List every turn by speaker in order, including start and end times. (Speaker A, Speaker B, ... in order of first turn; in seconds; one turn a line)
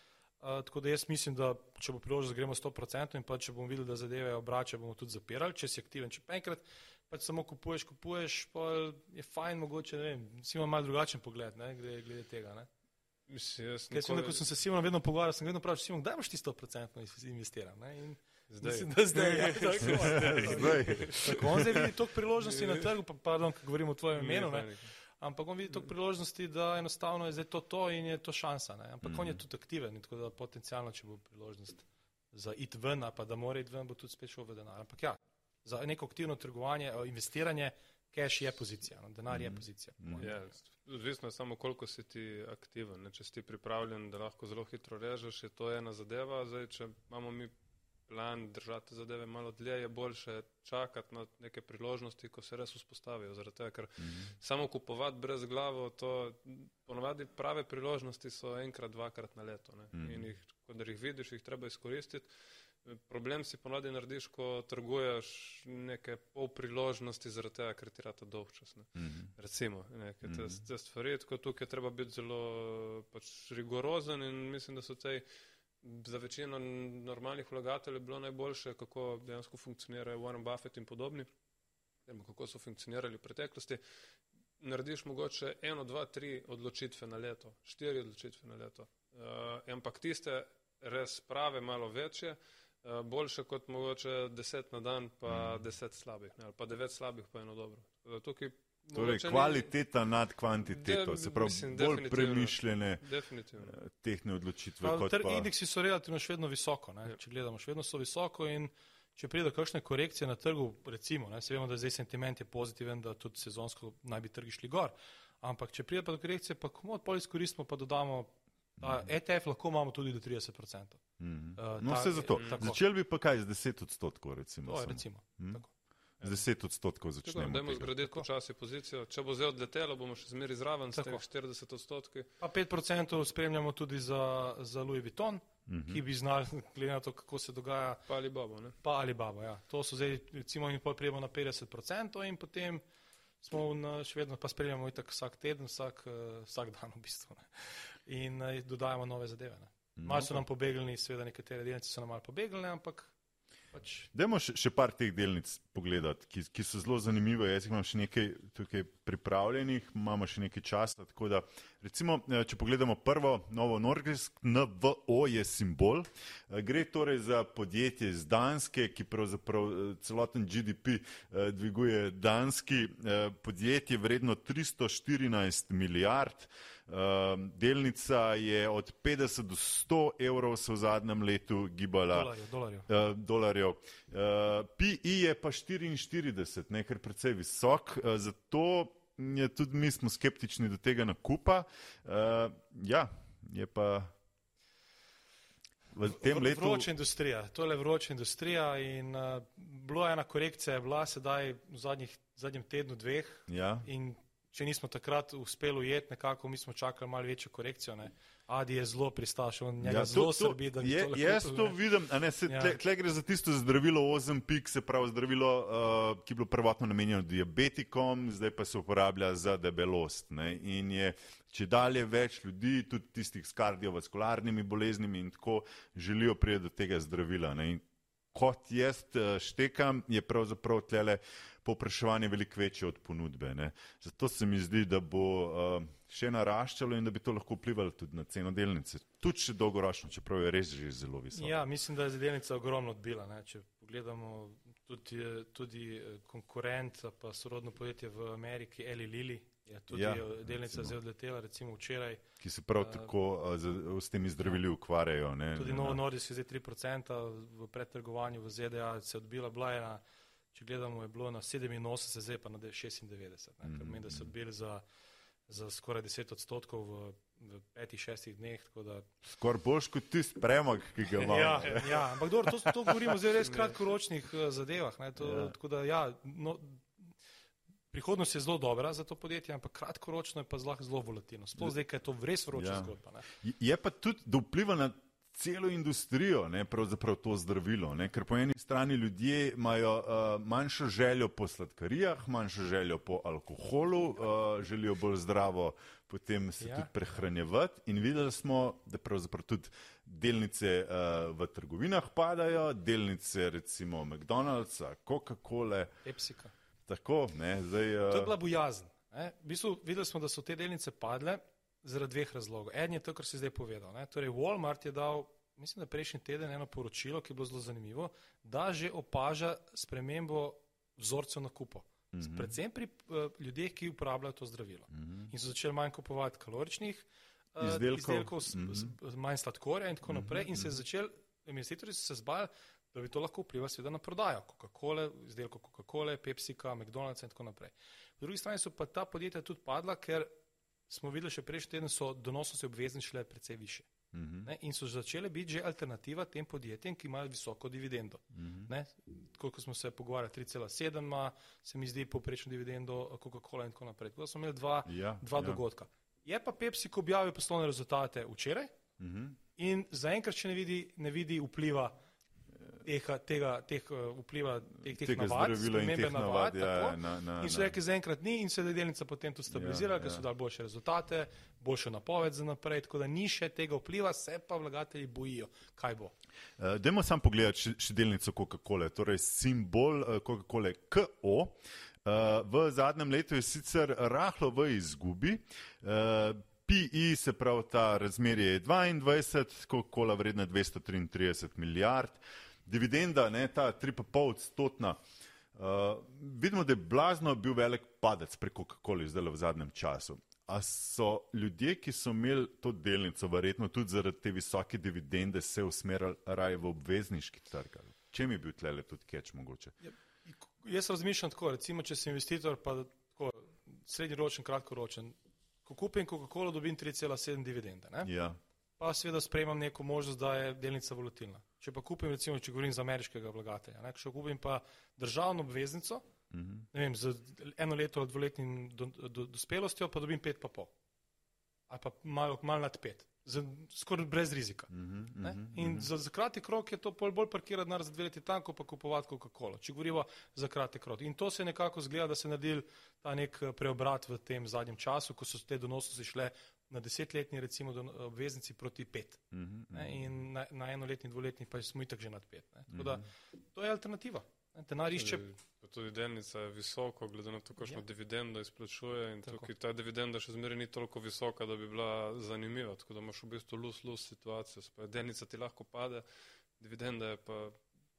Speaker A: 0.4-12.7
Speaker B: 13.3-14.4
Speaker A: 13.9-40.4
Speaker B: 18.5-21.6
Speaker C: 19.9-21.9
Speaker B: 22.4-22.9
Speaker B: 24.1-24.9
Speaker C: 29.0-29.4
Speaker C: 39.3-40.2
Speaker B: 40.2-47.5
Speaker B: 48.1-62.3
Speaker C: 54.0-54.3
Speaker C: 59.9-60.2
Speaker B: 62.8-75.2
Speaker C: 69.0-69.3
Speaker C: 70.2-70.6
Speaker B: 75.8-81.3
Speaker B: 82.1-83.8
Speaker B: 84.6-99.7
Speaker C: 95.3-95.6
Speaker C: 98.9-103.0
Speaker B: 100.7-103.8
Speaker C: 103.6-105.5
Speaker A: 104.8-121.0
Speaker C: 121.2-125.6
Speaker A: 121.6-122.8
Speaker B: 122.4-122.6
Speaker A: 124.6-125.7
Speaker C: 126.2-127.9
Speaker B: 127.2-132.3
Speaker A: 130.9-131.2
Speaker A: 132.4-138.0
Speaker C: 135.7-136.0
Speaker B: 138.1-138.8
Speaker A: 138.8-142.8
Speaker A: 143.4-153.1
Speaker C: 150.0-150.4
Speaker A: 153.7-154.1
Speaker C: 154.1-182.3
Speaker A: 182.1-182.9
Speaker C: 182.9-194.1
Speaker C: 195.9-196.9
Speaker A: 196.0-211.8
Speaker C: 203.5-203.9
Speaker C: 209.8-241.5
Speaker A: 212.4-212.8
Speaker A: 241.3-252.2
Speaker C: 249.9-250.9
Speaker C: 252.4-256.0
Speaker A: 252.8-253.1
Speaker A: 255.5-260.0
Speaker A: 260.5-264.8
Speaker C: 263.6-264.3
Speaker A: 265.5-269.1
Speaker C: 269.2-273.1
Speaker A: 271.1-277.1
Speaker C: 275.2-275.6
Speaker A: 277.9-283.3
Speaker C: 282.5-305.9
Speaker A: 296.6-296.9
Speaker A: 306.0-306.5
Speaker C: 306.9-308.3
Speaker A: 308.1-340.3
Speaker C: 322.1-322.5
Speaker C: 324.9-325.3
Speaker C: 327.6-328.9
Speaker C: 330.1-330.7
Speaker A: 340.9-343.9
Speaker C: 344.1-344.5
Speaker A: 344.4-358.7
Speaker C: 348.3-348.7
Speaker C: 354.9-355.6
Speaker C: 359.0-359.4
Speaker A: 359.6-361.9
Speaker A: 362.8-376.1
Speaker C: 364.8-367.8
Speaker C: 369.5-370.2
Speaker C: 376.6-395.0
Speaker C: 395.5-409.7
Speaker A: 409.8-418.1
Speaker C: 418.0-418.4
Speaker A: 418.8-426.0
Speaker C: 426.3-426.6
Speaker A: 426.7-430.7
Speaker A: 431.7-434.7
Speaker C: 434.7-435.9
Speaker A: 435.2-455.2
Speaker C: 449.3-450.1
Speaker C: 452.7-453.0
Speaker B: 454.9-466.0
Speaker B: 466.6-467.6